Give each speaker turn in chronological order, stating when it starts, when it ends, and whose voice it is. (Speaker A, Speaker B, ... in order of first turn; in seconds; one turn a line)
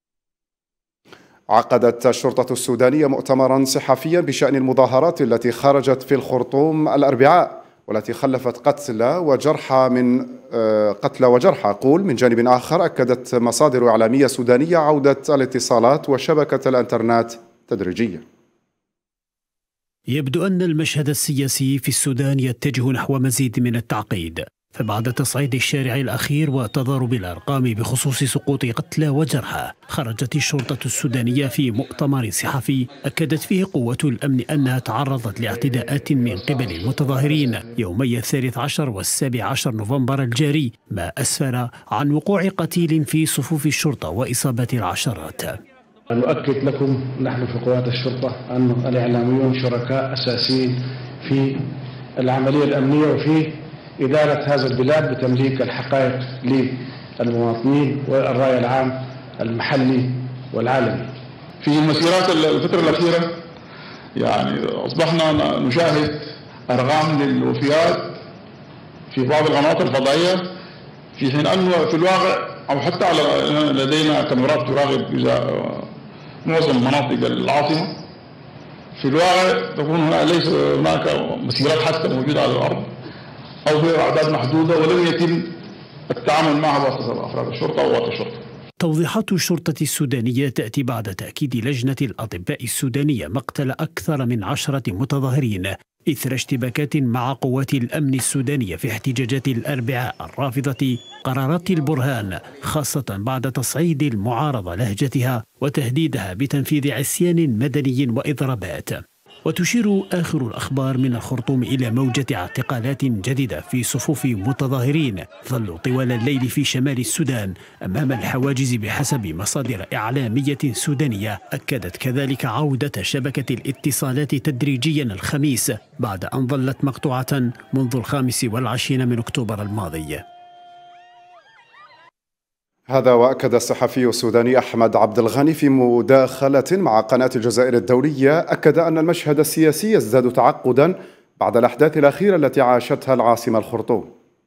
Speaker A: 1.5-18.2
Speaker B: 20.1-45.6
Speaker C: 46.1-61.1
Speaker D: 61.6-63.3
Speaker D: 64.2-68.2
Speaker D: 69.1-70.4
Speaker D: 71.2-75.9
Speaker D: 76.4-77.9
Speaker D: 79.0-82.9
Speaker D: 83.7-85.5
Speaker D: 86.1-88.4
Speaker B: 88.8-130.2
Speaker A: 132.9-144.1